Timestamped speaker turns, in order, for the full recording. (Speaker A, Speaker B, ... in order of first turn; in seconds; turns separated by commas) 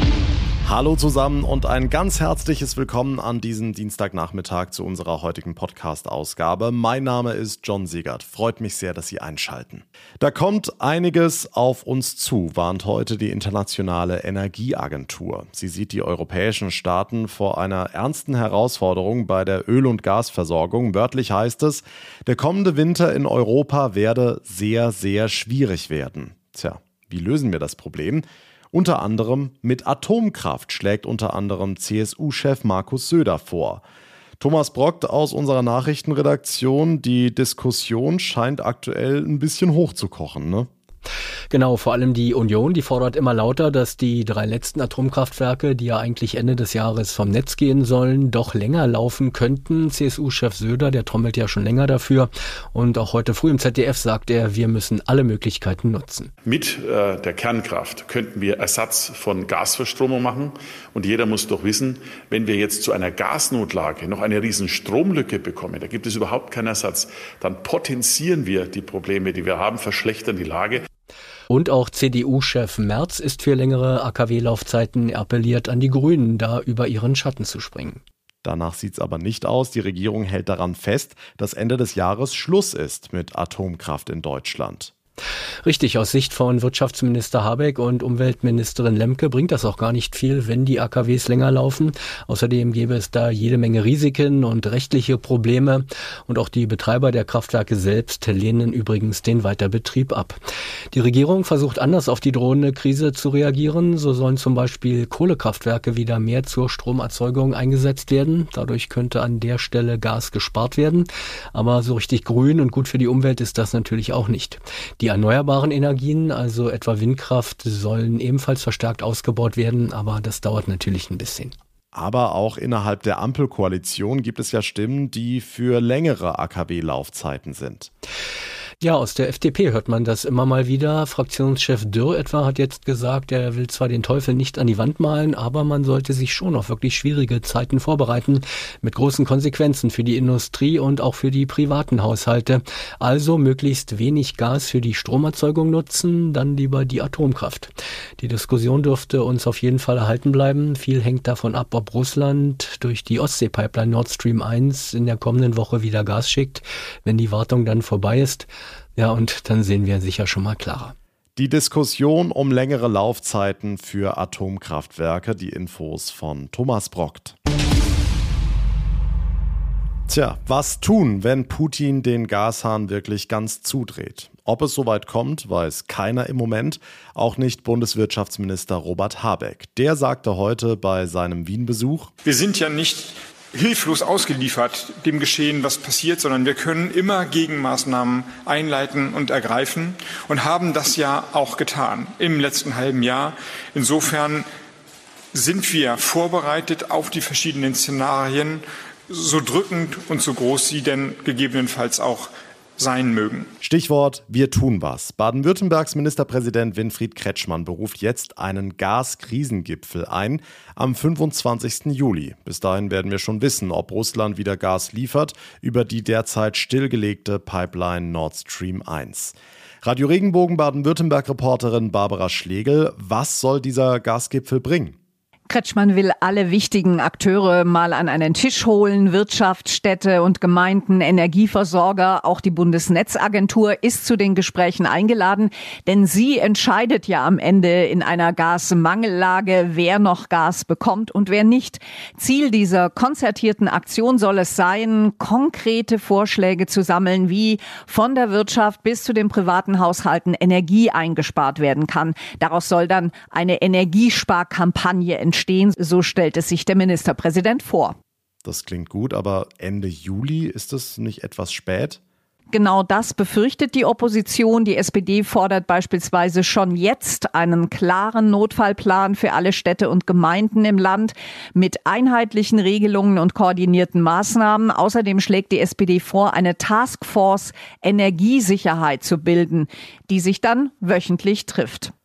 Speaker A: 0.6-33.8, Speaker A: 34.4-40.7, Speaker B: 41.5-56.3, Speaker C: 56.5-70.9, Speaker B: 71.5-78.0, Speaker A: 78.4-84.9, Speaker B: 85.6-100.4, Speaker B: 100.9-121.5, Speaker A: 121.9-127.9, Speaker B: 128.8-160.9, Speaker A: 161.4-167.3, Speaker A: 170.1-182.1, Speaker D: 182.2-194.5, Speaker D: 195.3-203.5, Speaker A: 203.6-224.9, Speaker E: 225.5-257.9, Speaker A: 258.4-262.0, Speaker E: 262.5-281.9